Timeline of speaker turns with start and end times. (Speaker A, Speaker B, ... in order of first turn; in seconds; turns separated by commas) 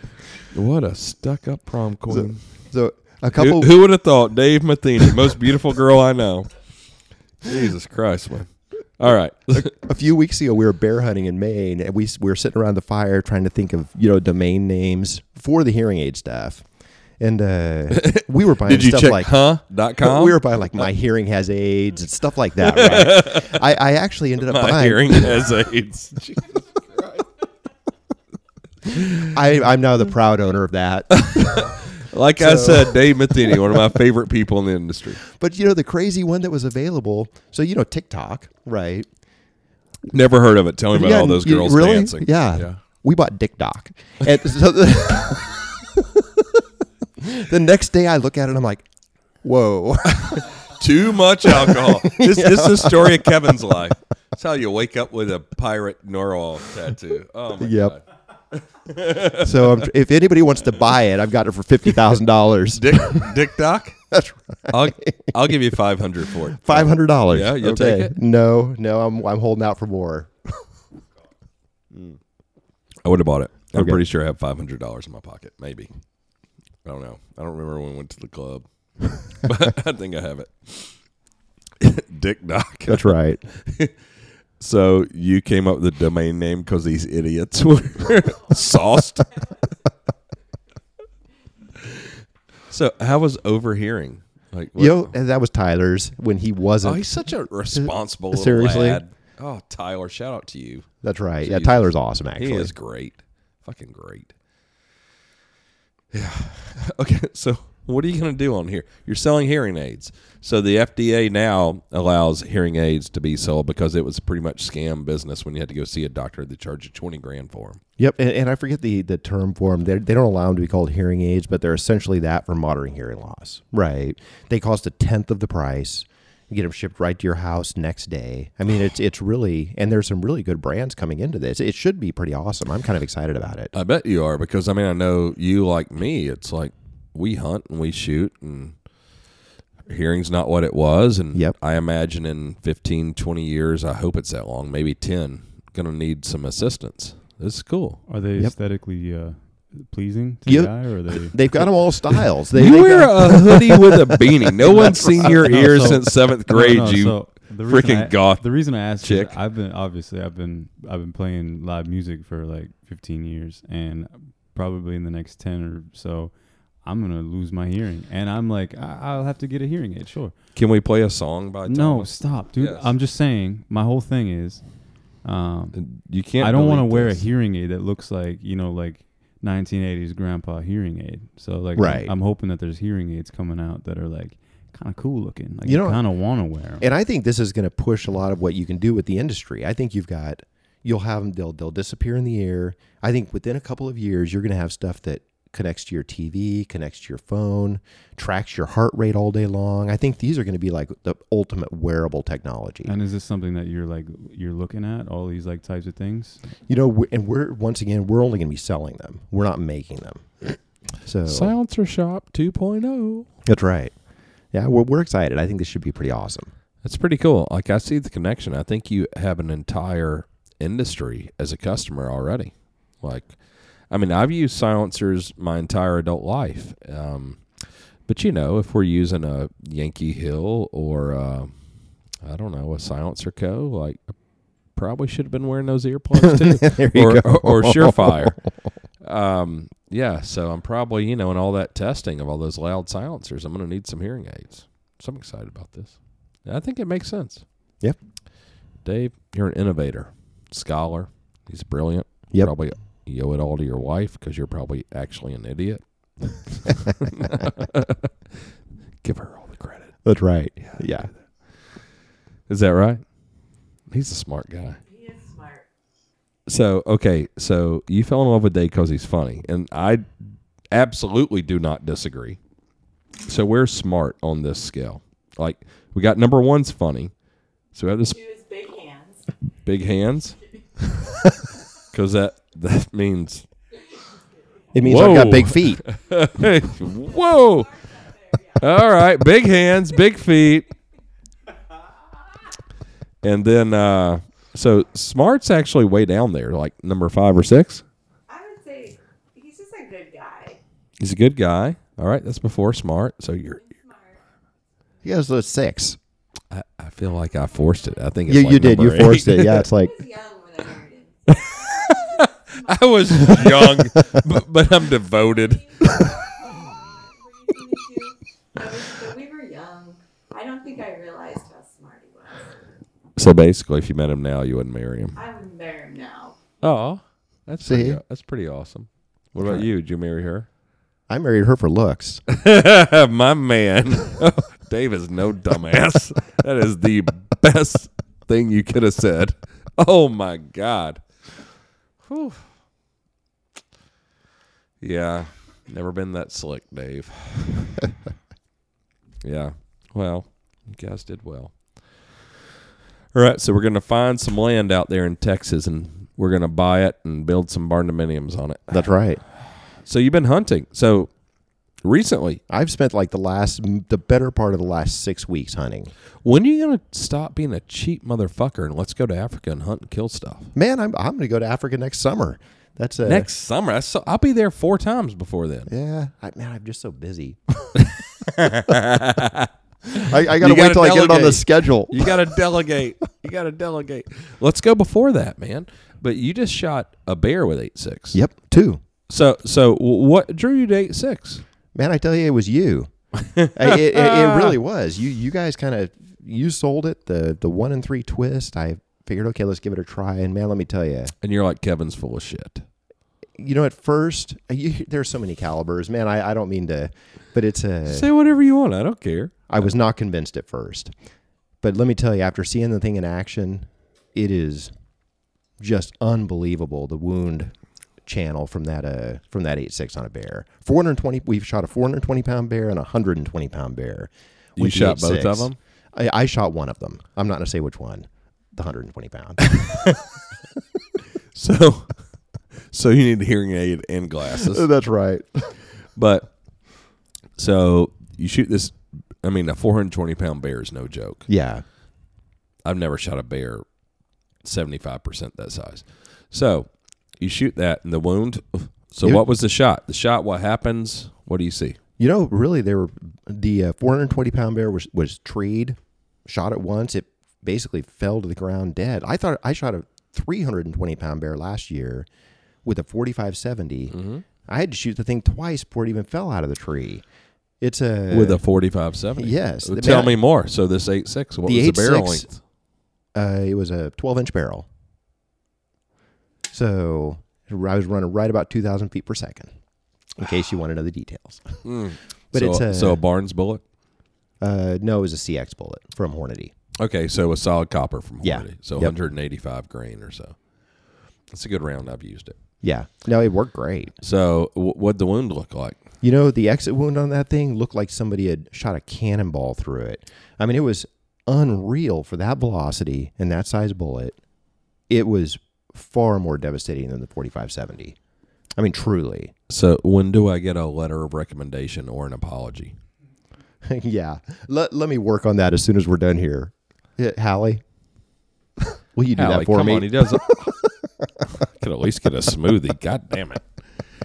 Speaker A: 0.5-2.7, Speaker B: 2.1-3.8, Speaker A: 3.4-6.8, Speaker A: 7.4-9.7, Speaker B: 9.6-25.6, Speaker A: 17.9-20.4, Speaker A: 22.6-23.6, Speaker A: 24.4-27.3, Speaker A: 28.9-29.3, Speaker B: 29.3-31.7, Speaker A: 31.2-35.2, Speaker B: 32.4-33.8, Speaker B: 35.2-39.1, Speaker A: 40.1-42.8, Speaker B: 40.9-46.6, Speaker B: 47.2-48.9, Speaker B: 49.4-50.6, Speaker A: 50.2-59.8, Speaker B: 51.4-53.5, Speaker B: 57.6-58.0, Speaker B: 59.2-63.4, Speaker A: 62.7-64.0, Speaker B: 64.1-65.6, Speaker A: 64.7-68.2, Speaker B: 66.5-70.7, Speaker A: 71.9-72.2, Speaker A: 73.0-75.9, Speaker B: 73.7-74.0, Speaker A: 76.8-81.0, Speaker A: 81.8-84.0, Speaker B: 82.9-83.4, Speaker A: 84.6-89.5, Speaker A: 92.7-95.1, Speaker B: 94.8-99.0, Speaker A: 96.8-100.9, Speaker B: 101.0-102.7, Speaker A: 101.4-104.3, Speaker A: 106.1-117.8, Speaker B: 118.0-133.7, Speaker A: 133.7-138.8, Speaker A: 139.9-148.1, Speaker C: 148.1-151.6, Speaker B: 150.5-153.6, Speaker A: 152.5-159.4, Speaker B: 154.7-155.5, Speaker C: 154.8-170.5, Speaker A: 170.6-172.9, Speaker C: 171.7-186.9, Speaker A: 175.7-177.2, Speaker B: 181.8-182.1, Speaker B: 185.7-202.9, Speaker C: 202.8-206.4, Speaker B: 206.7-211.5, Speaker A: 211.2-213.3, Speaker B: 213.4-216.5, Speaker A: 216.8-238.4, Speaker B: 236.2-238.4, Speaker A: 239.0-247.5, Speaker A: 248.8-258.4, Speaker A: 259.0-261.7, Speaker B: 260.0-261.1, Speaker A: 262.5-264.8, Speaker D: 264.9-265.6, Speaker A: 266.5-272.4, Speaker A: 273.3-277.1, Speaker A: 277.7-278.2, Speaker D: 278.1-279.4, Speaker A: 279.6-280.4, Speaker D: 280.8-281.1, Speaker A: 281.9-283.5, Speaker D: 283.9-284.3, Speaker B: 284.7-285.9, Speaker A: 284.8-287.9, Speaker D: 287.0-288.8, Speaker A: 288.6-290.7, Speaker A: 293.2-297.9, Speaker D: 298.3-300.6, Speaker A: 301.0-303.6, Speaker D: 303.6-304.2, Speaker B: 305.0-306.0, Speaker A: 306.5-309.6, Speaker D: 307.6-308.0, Speaker B: 308.3-309.9, Speaker D: 309.7-313.6, Speaker A: 311.3-316.0, Speaker B: 313.3-314.2, Speaker D: 315.1-322.6, Speaker A: 323.2-325.2, Speaker D: 325.2-326.5, Speaker A: 326.6-330.5, Speaker B: 327.7-328.0, Speaker B: 329.4-329.7, Speaker B: 331.1-332.2, Speaker A: 332.3-341.2, Speaker A: 342.0-342.4, Speaker A: 344.8-347.8, Speaker A: 349.2-352.2, Speaker A: 353.1-361.2, Speaker B: 358.7-359.2, Speaker A: 361.7-362.4, Speaker B: 362.5-365.9, Speaker A: 366.2-370.5, Speaker B: 370.5-373.3, Speaker A: 373.0-375.7, Speaker B: 375.7-377.7, Speaker A: 377.8-388.2, Speaker B: 379.9-382.3, Speaker B: 388.1-388.8, Speaker A: 389.1-391.4, Speaker B: 391.7-401.1, Speaker A: 393.2-394.6, Speaker A: 401.2-402.6, Speaker B: 403.4-408.1, Speaker A: 407.9-409.5, Speaker B: 409.5-410.9, Speaker B: 411.6-414.7, Speaker B: 415.6-430.0, Speaker A: 424.6-425.6, Speaker A: 431.3-434.7, Speaker B: 434.4-435.6, Speaker A: 435.9-441.3, Speaker B: 441.3-441.6, Speaker A: 442.6-443.7, Speaker A: 444.4-451.8, Speaker B: 452.0-462.1, Speaker B: 462.6-467.0, Speaker A: 463.9-464.2, Speaker B: 467.6-468.4, Speaker A: 468.1-472.4, Speaker B: 469.2-470.2, Speaker B: 471.5-472.3, Speaker B: 473.1-474.7, Speaker B: 476.5-479.5, Speaker B: 480.2-481.7, Speaker A: 481.6-483.6, Speaker B: 482.3-483.0, Speaker B: 484.4-486.5, Speaker A: 486.8-490.4, Speaker B: 488.2-488.9, Speaker A: 491.3-492.4, Speaker B: 492.6-493.9, Speaker A: 494.0-495.8, Speaker B: 496.0-504.2, Speaker B: 504.9-508.0, Speaker B: 508.6-509.3, Speaker A: 509.5-512.8, Speaker B: 513.6-517.6, Speaker B: 518.9-521.1, Speaker A: 519.2-520.3, Speaker A: 521.4-523.5